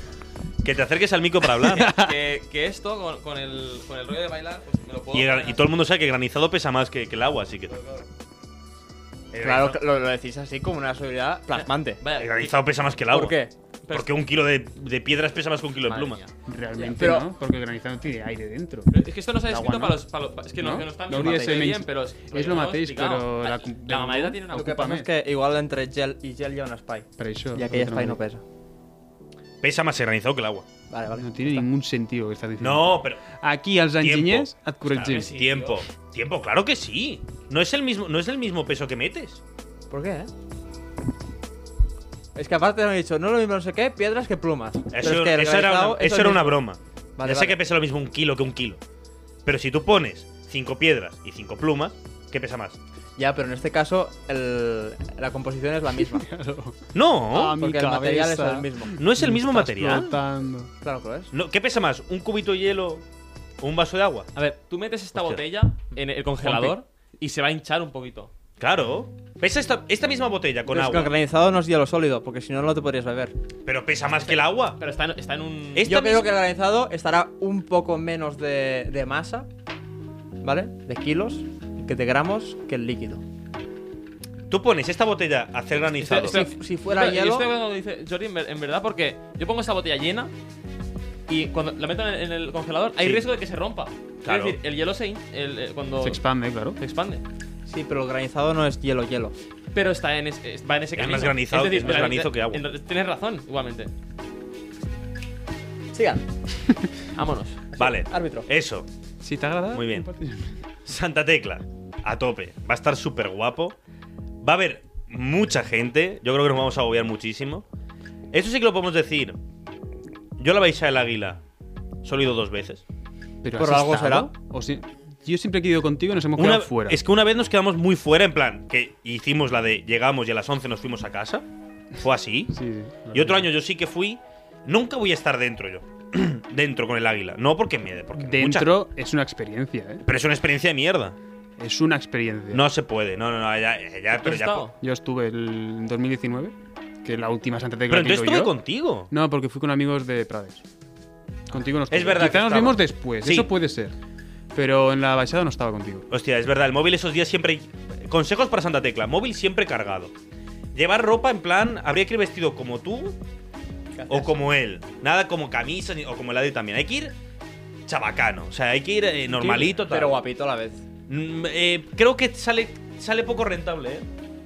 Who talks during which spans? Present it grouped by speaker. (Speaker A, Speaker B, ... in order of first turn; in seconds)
Speaker A: 0.6-2.0, 5.1-7.7, 9.4-9.7, 12.1-13.4, 13.9-16.2, 29.6-30.7, 32.6-33.2, 34.0-39.4, 44.9-48.8, 49.4-52.8, 56.9-57.5, 58.9-60.2, 61.3-63.0, 63.6-64.3, 65.2-65.4, 68.6-71.1, 73.7-74.8, 75.8-76.3, 84.5-86.4, 93.0-93.2, 94.2-94.6, 100.9-102.6, 107.8-108.9, 109.7-110.1, 110.8-113.8, 114.4-117.6, 118.3-119.4, 120.4-121.4, 122.0-122.8, 126.3-131.4, 132.0-132.6, 133.1-138.8, 140.0-141.2, 142.5-144.7, 147.9-149.1, 151.9-153.5, 156.1-160.1, 160.7-163.2, 164.1-167.2, 167.9-170.2, 171.1-174.1
Speaker B: 1.6-2.1, 16.4-20.0, 20.6-25.1, 27.2-28.2, 31.1-35.3, 56.0-60.7, 66.4-66.8, 96.0-96.8, 109.2-110.6, 123.4-127.0, 132.5-133.5, 138.2-140.0, 141.6-142.7, 144.8-148.6, 149.1-150.6, 151.5-153.9, 154.5-156.1, 169.4-169.7
Speaker C: 1.8-5.7, 7.7-8.1, 11.6-12.7, 13.8-14.1, 15.8-16.3, 18.9-24.8, 35.0-35.8, 64.3-68.3, 74.1-76.1, 85.9-90.3, 91.3-96.2, 96.8-97.2, 99.7-103.9, 107.1-107.7, 144.2-144.8
Speaker D: 9.4-12.0, 13.1-13.5, 16.8-17.3, 24.5-28.4, 30.9-31.7, 39.9-40.3, 42.3-46.6, 47.2-47.6, 53.2-56.3, 57.5-59.0, 60.8-61.3, 70.7-73.3, 75.8-79.5, 80.4-83.2, 86.1-87.5, 97.7-99.3, 105.9-106.2, 107.8-108.5, 123.6-124.3, 163.9-164.4, 169.4-170.8